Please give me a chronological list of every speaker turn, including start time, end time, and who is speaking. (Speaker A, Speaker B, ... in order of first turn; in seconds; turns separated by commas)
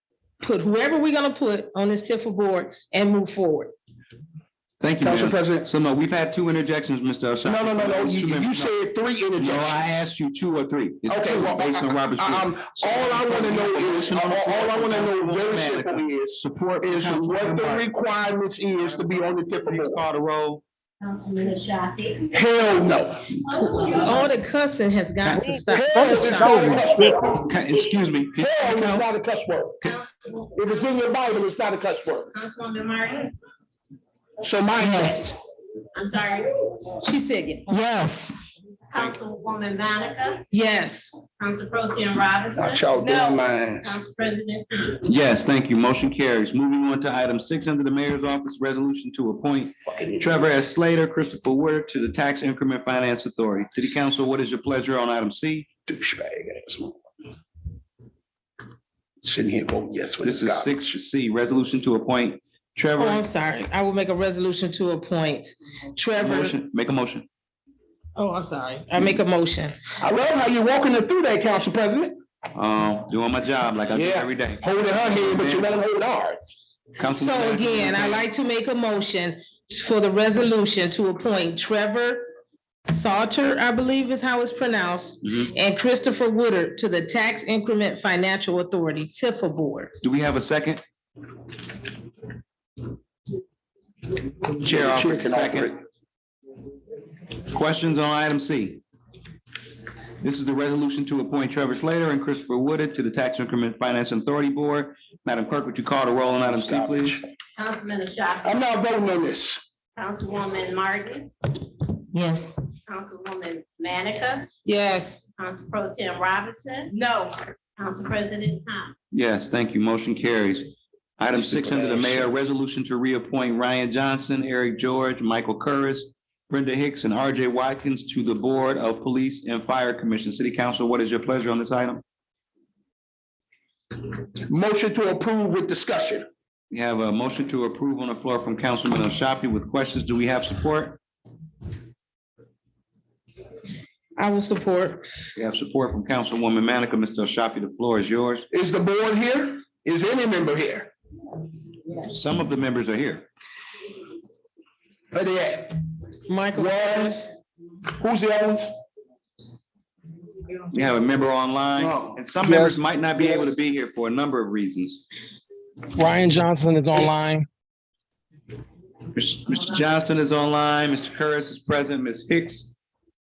Speaker A: 0.4-3.7, Speaker B: 4.8-8.7, Speaker C: 5.0-5.7, Speaker C: 7.4-9.8, Speaker B: 9.4-17.9, Speaker C: 11.1-20.0, Speaker B: 18.9-20.6, Speaker D: 21.0-22.4, Speaker C: 22.3-23.3, Speaker D: 23.4-24.3, Speaker A: 23.7-26.9, Speaker B: 25.2-25.5, Speaker E: 25.4-27.3, Speaker C: 25.7-27.4, Speaker B: 27.4-29.1, Speaker C: 28.4-29.8, Speaker D: 29.8-30.9, Speaker C: 30.5-32.3, Speaker D: 32.3-33.3, Speaker C: 34.4-35.4, Speaker D: 35.9-36.9, Speaker A: 37.0-37.8, Speaker E: 37.7-38.3, Speaker D: 38.9-40.5, Speaker A: 40.5-41.2, Speaker D: 41.4-45.0, Speaker C: 42.6-44.0, Speaker A: 43.0-43.4, Speaker B: 45.0-55.7, Speaker C: 49.9-50.5, Speaker C: 55.9-57.0, Speaker C: 59.2-60.8, Speaker B: 60.2-63.2, Speaker A: 63.0-66.6, Speaker B: 66.2-67.3, Speaker A: 68.2-69.7, Speaker C: 70.0-72.2, Speaker B: 72.5-75.8, Speaker C: 73.9-76.5, Speaker B: 77.0-78.2, Speaker A: 77.1-82.3, Speaker A: 82.9-89.9, Speaker B: 90.0-90.8, Speaker B: 94.6-95.7, Speaker C: 94.6-95.8, Speaker B: 97.5-98.8, Speaker B: 100.2-107.2, Speaker C: 106.4-107.2, Speaker D: 107.6-108.6, Speaker C: 108.4-109.6, Speaker D: 110.0-111.3, Speaker A: 112.1-112.5, Speaker D: 112.9-114.5, Speaker A: 114.7-115.2, Speaker D: 115.4-116.9, Speaker A: 116.9-117.3, Speaker D: 117.8-118.9, Speaker B: 119.1-132.0, Speaker C: 121.3-122.3, Speaker C: 134.5-136.2, Speaker B: 136.7-141.0, Speaker A: 144.2-145.0, Speaker B: 145.4-148.4, Speaker C: 148.5-150.9, Speaker B: 152.0-153.3, Speaker C: 155.1-155.8, Speaker A: 156.3-157.3, Speaker C: 156.5-157.3, Speaker C: 158.0-158.7, Speaker B: 160.7-165.0, Speaker E: 162.4-162.8, Speaker E: 165.9-167.5, Speaker B: 169.1-172.7